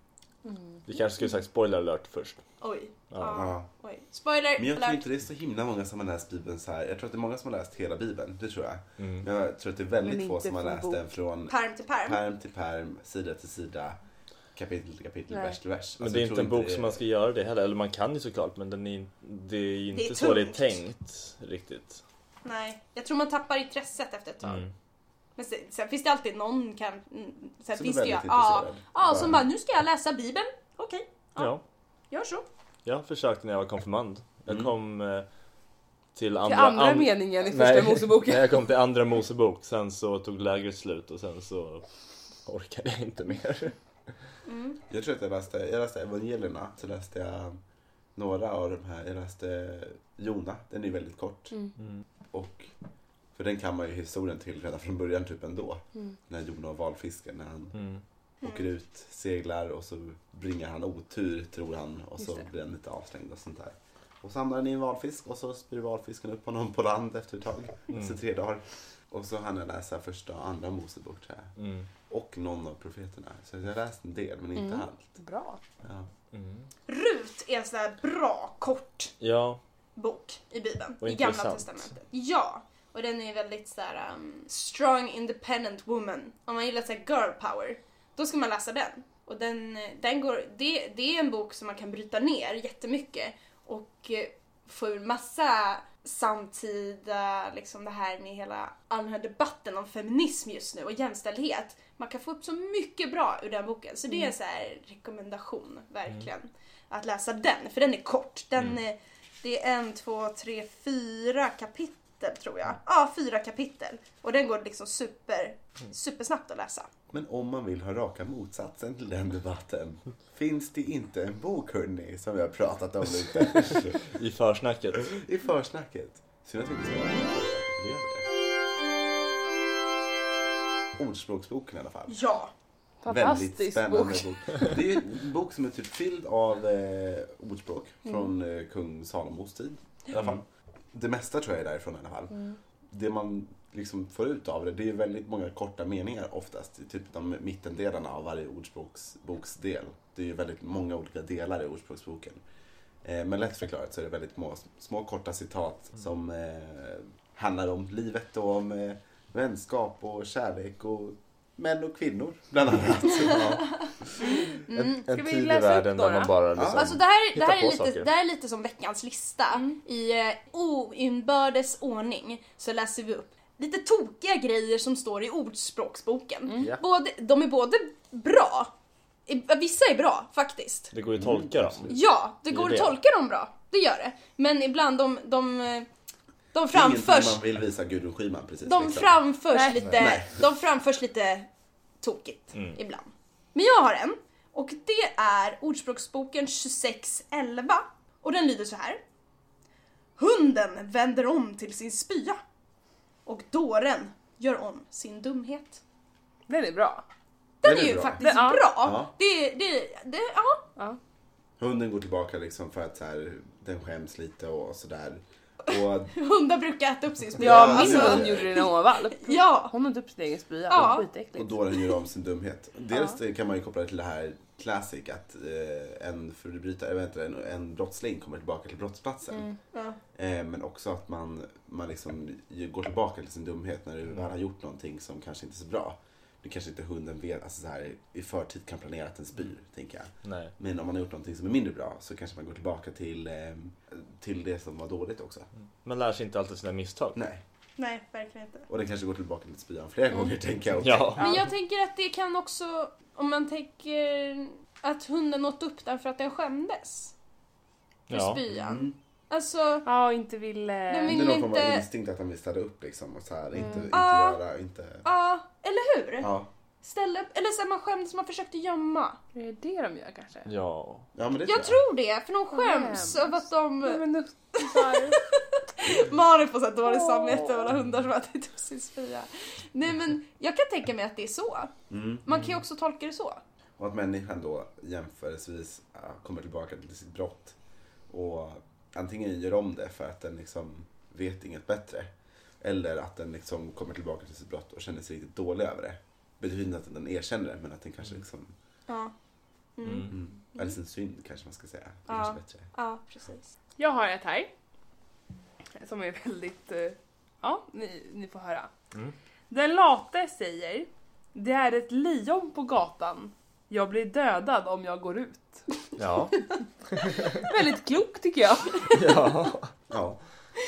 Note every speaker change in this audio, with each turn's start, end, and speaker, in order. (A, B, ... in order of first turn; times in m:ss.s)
0:00.4-0:00.8 A
0:00.9-0:02.4 B
0:02.6-0:05.0 C
0:03.1-0:03.5 B
0:03.3-0:03.7 D
0:04.6-0:14.0 D
0:09.0-0:09.3 B
0:10.0-0:11.0 A
0:11.5-0:12.2 C
0:14.6-0:17.0 D
0:15.3-0:15.6 A
0:16.0-0:22.0 B
0:19.9-0:20.8 C
0:22.4-0:24.6 C
0:24.4-0:24.7 B
0:25.4-0:31.5 C
0:27.7-0:29.5 D
0:31.4-0:31.6 B
0:32.1-0:32.5 C
0:32.8-0:35.3 B
0:36.2-0:41.8 B
0:36.4-0:38.6 A
0:42.5-0:43.8 B
0:44.5-0:44.8 C
0:44.9-0:47.6 D
0:48.2-0:51.6 D
0:51.8-0:52.0 B
0:52.3-0:52.7 D
0:53.4-0:57.8 D
0:57.8-0:58.0 B
0:58.4-0:58.7 C
0:58.4-1:11.5 D
1:07.9-1:08.2 B
1:11.6-1:11.9 B
1:12.1-1:15.2 D
1:14.6-1:15.6 A
1:15.8-1:16.1 D
1:16.3-1:16.7 B
1:16.9-1:19.1 C
1:19.2-1:19.6 B
1:20.0-1:56.9 C
1:21.0-1:21.9 B
1:57.1-2:04.0 D
2:03.9-2:05.1 B
2:05.0-2:08.3 D
2:11.0-2:12.2 D
2:12.1-2:12.5 C
2:13.0-2:14.3 A
2:13.1-2:32.4 D
2:20.1-2:20.4 B
2:33.0-2:43.8 D
2:43.3-2:43.6 C
2:44.7-2:45.0 C
2:44.7-2:48.1 B
2:45.1-2:46.3 A
2:46.5-2:46.9 D
2:46.8-2:58.7 C
2:59.3-3:00.9 C
3:00.9-3:02.0 B
3:01.2-3:02.0 D
3:01.9-3:05.9 C
3:02.5-3:03.0 B
3:06.5-3:07.4 C
3:06.7-3:09.2 D
3:08.6-3:11.5 C
3:09.5-3:09.9 A
3:09.9-3:10.4 D
3:12.0-3:19.0 C
3:20.2-3:22.4 C
3:23.3-3:25.8 C
3:26.5-3:27.0 A
3:27.6-3:30.7 C
3:27.6-3:28.2 D
3:28.2-3:28.7 A
3:28.8-3:29.1 D
3:31.6-3:36.1 D
3:36.1-3:39.7 C
3:37.4-3:38.6 D
3:37.4-3:41.6 A
3:40.7-3:41.1 C
3:40.8-3:49.5 D
3:49.3-3:49.6 A
3:49.7-3:50.0 C
3:50.2-4:05.5 D
4:00.2-4:00.5 B
4:05.8-4:07.2 B
4:07.2-4:07.4 D
4:07.8-4:08.7 C
4:08.7-4:11.3 D
4:10.8-4:11.4 B
4:11.2-4:17.1 C
4:18.1-4:18.4 B
4:18.1-4:19.9 C
4:18.5-4:19.0 D
4:19.8-4:21.3 A
4:20.9-4:21.8 C
4:21.0-4:25.0 D
4:23.9-4:24.4 C
4:25.0-4:26.3 C
4:26.2-4:26.5 D
4:26.8-4:29.2 C
4:29.3-4:30.5 A
4:30.5-4:31.1 B
4:31.2-4:31.8 D
4:31.5-4:34.0 C
4:32.5-4:35.2 A
4:34.6-4:43.4 C
4:36.9-4:37.7 A
4:41.9-4:42.2 D
4:42.3-4:42.6 B
4:43.8-4:47.6 D
4:48.1-4:58.5 D
4:58.9-4:59.1 C
4:59.8-5:00.8 C
4:59.8-5:00.1 B
5:00.1-5:02.7 D
5:02.1-5:03.5 C
5:03.8-5:04.5 A
5:05.8-5:08.7 A
5:09.5-5:15.7 A
5:16.0-5:17.4 B
5:17.2-5:19.0 A
5:18.9-5:19.7 B
5:19.9-5:20.2 D